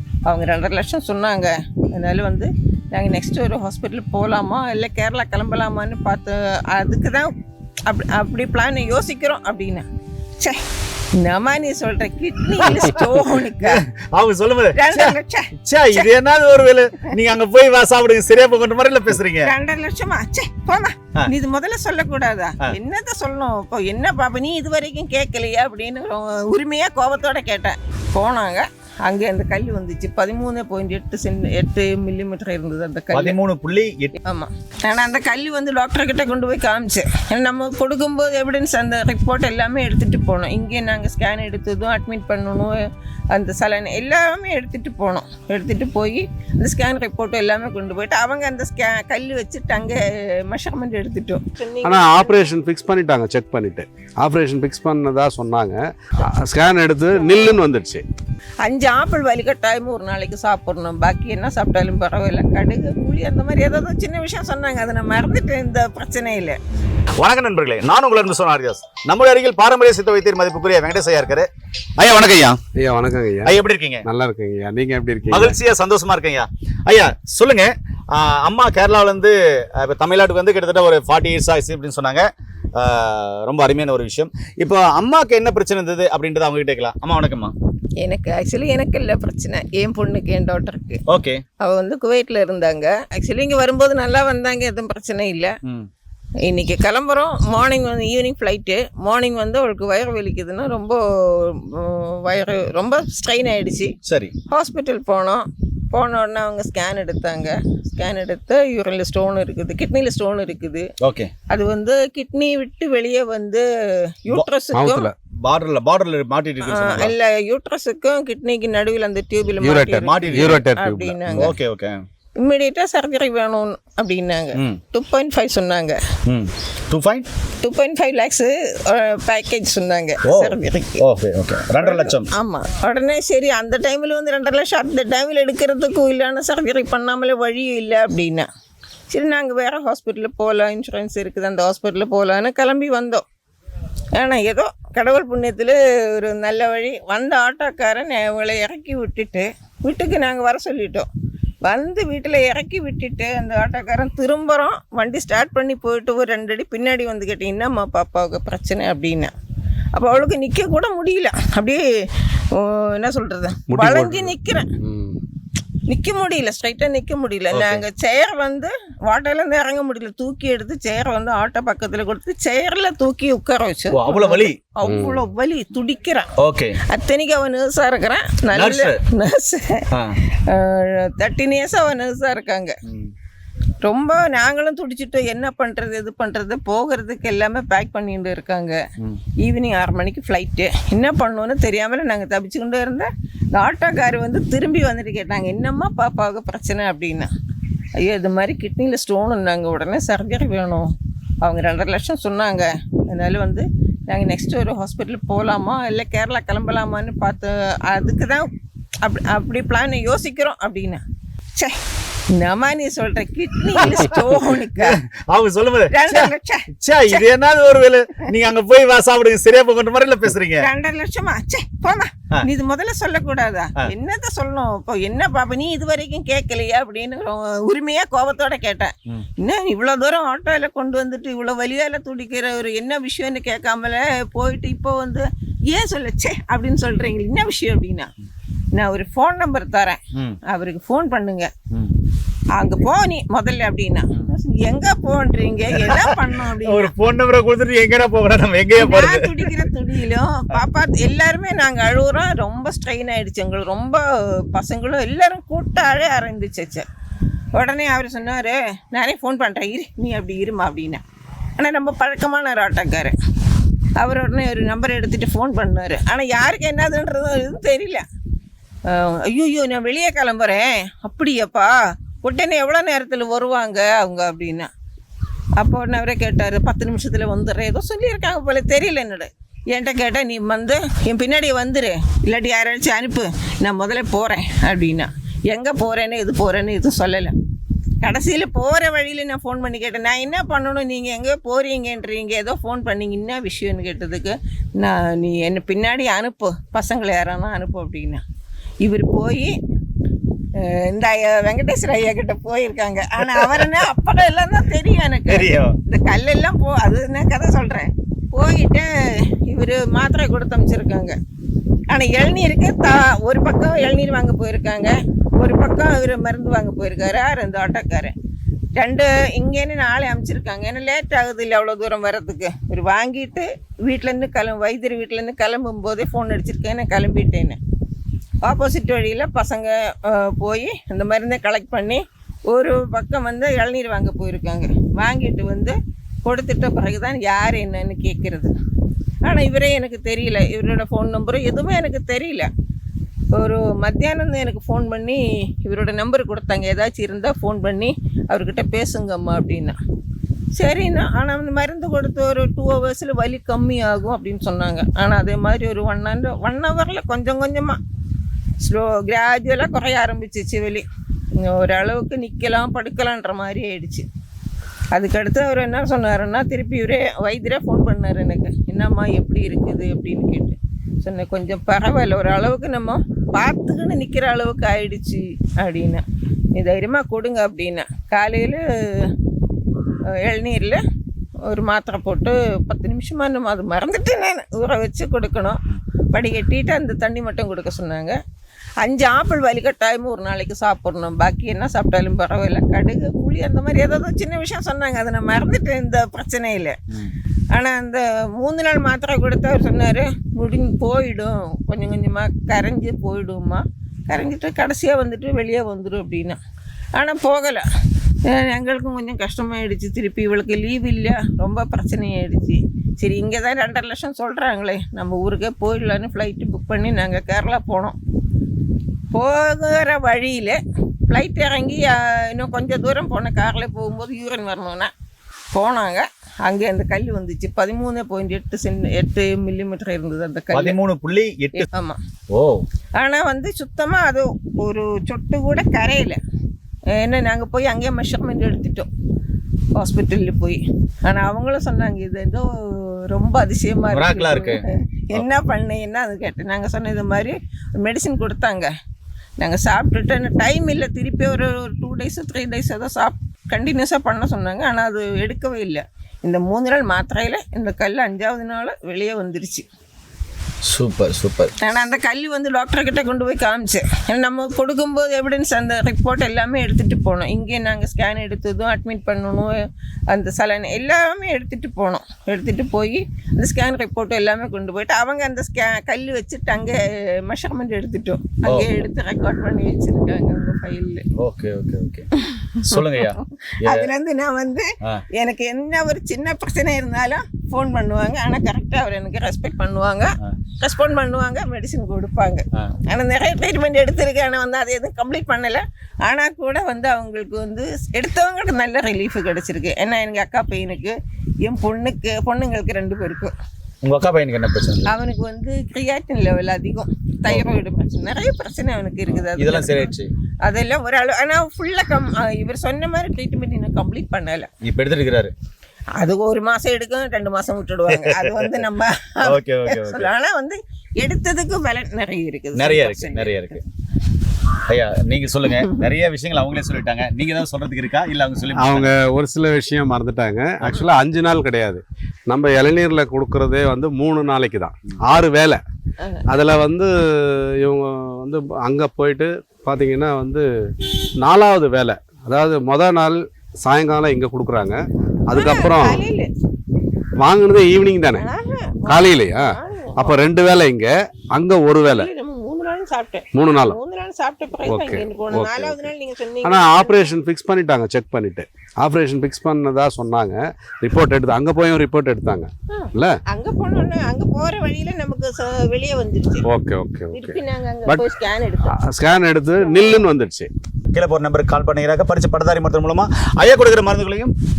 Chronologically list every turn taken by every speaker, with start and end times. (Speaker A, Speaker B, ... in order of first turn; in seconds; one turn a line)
Speaker A: 0.3-7.3
Speaker A: 7.9-9.8
Speaker A: 11.2-13.8
Speaker B: 12.6-19.5
Speaker A: 14.7-16.1
Speaker A: 19.4-33.4
Speaker B: 33.1-34.1
Speaker A: 34.2-42.7
Speaker A: 43.3-52.5
Speaker C: 51.8-58.0
Speaker A: 57.1-57.5
Speaker A: 58.6-66.6
Speaker B: 67.2-72.6
Speaker C: 72.8-75.6
Speaker B: 73.4-74.0
Speaker B: 75.3-87.5
Speaker A: 88.0-91.0
Speaker B: 91.1-91.4
Speaker A: 91.6-95.5
Speaker A: 96.5-103.9
Speaker B: 104.0-104.3
Speaker A: 104.5-110.9
Speaker B: 111.0-111.3
Speaker A: 111.5-115.1
Speaker C: 114.7-115.1
Speaker B: 115.4-117.1
Speaker A: 116.6-121.5
Speaker C: 119.6-121.5
Speaker B: 120.0-120.6
Speaker B: 121.4-122.0
Speaker A: 122.4-126.0
Speaker B: 126.2-127.2
Speaker A: 127.6-131.0
Speaker B: 130.2-132.3
Speaker A: 131.8-138.5
Speaker A: 139.1-143.2
Speaker A: 144.2-151.1
Speaker A: 151.6-159.3
Speaker A: 159.9-161.8
Speaker A: 162.5-164.7
Speaker C: 163.7-165.2
Speaker A: 165.9-176.3
Speaker B: 167.5-167.8
Speaker B: 173.9-174.6
Speaker C: 174.8-175.2
Speaker B: 176.4-176.8
Speaker A: 176.9-182.8
Speaker B: 178.5-179.0
Speaker B: 179.9-180.2
Speaker B: 182.8-183.1
Speaker A: 183.8-188.8
Speaker A: 189.4-197.3
Speaker A: 198.0-200.9
Speaker A: 201.4-208.5
Speaker A: 209.0-211.0
Speaker A: 212.3-215.0
Speaker B: 213.8-220.7
Speaker A: 215.9-217.2
Speaker A: 220.6-238.1
Speaker A: 238.7-241.5
Speaker A: 242.6-246.9
Speaker B: 245.8-249.5
Speaker A: 248.8-254.0
Speaker A: 254.5-256.8
Speaker A: 257.5-261.0
Speaker A: 261.6-263.1
Speaker A: 264.0-268.0
Speaker A: 268.9-274.7
Speaker A: 275.6-287.3
Speaker A: 288.0-298.2
Speaker A: 298.8-299.5
Speaker A: 300.6-311.1
Speaker B: 303.2-303.5
Speaker B: 305.3-305.8
Speaker A: 311.9-318.1
Speaker A: 318.8-327.6
Speaker A: 328.4-338.5
Speaker A: 339.2-342.5
Speaker A: 343.3-349.8
Speaker A: 350.6-357.8
Speaker A: 358.6-360.8
Speaker A: 361.4-364.1
Speaker A: 364.9-376.0
Speaker A: 376.5-379.1
Speaker A: 380.2-380.8
Speaker A: 381.5-385.6
Speaker A: 386.1-388.2
Speaker A: 388.8-396.8
Speaker A: 397.5-406.4
Speaker A: 406.9-407.6
Speaker A: 408.3-417.9
Speaker A: 419.1-424.9
Speaker A: 425.5-430.8
Speaker B: 430.5-431.7
Speaker A: 431.6-432.0
Speaker B: 432.3-432.6
Speaker A: 433.0-436.2
Speaker A: 437.0-438.9
Speaker A: 439.7-448.7
Speaker B: 443.9-444.6
Speaker A: 449.4-459.6
Speaker B: 460.6-461.6
Speaker A: 461.6-469.5
Speaker A: 470.1-481.1
Speaker B: 481.2-483.9
Speaker A: 482.1-503.3
Speaker B: 503.8-504.9
Speaker A: 504.9-509.9
Speaker B: 509.1-510.1
Speaker A: 510.4-514.5
Speaker B: 514.6-515.3
Speaker A: 516.0-523.6
Speaker B: 517.9-518.6
Speaker B: 519.2-520.1
Speaker B: 522.5-523.6
Speaker B: 524.7-528.9
Speaker A: 525.5-525.8
Speaker C: 528.5-535.6
Speaker B: 530.6-530.9
Speaker C: 536.3-540.5
Speaker C: 541.2-546.0
Speaker A: 545.3-546.3
Speaker C: 547.2-548.2
Speaker A: 548.2-550.1
Speaker C: 548.9-552.1
Speaker A: 551.9-557.1
Speaker C: 553.3-553.8
Speaker C: 554.7-555.9
Speaker C: 556.4-563.2
Speaker A: 562.7-566.5
Speaker C: 566.4-568.0
Speaker A: 567.1-568.8
Speaker C: 568.7-570.5
Speaker A: 569.6-570.0
Speaker B: 570.9-574.3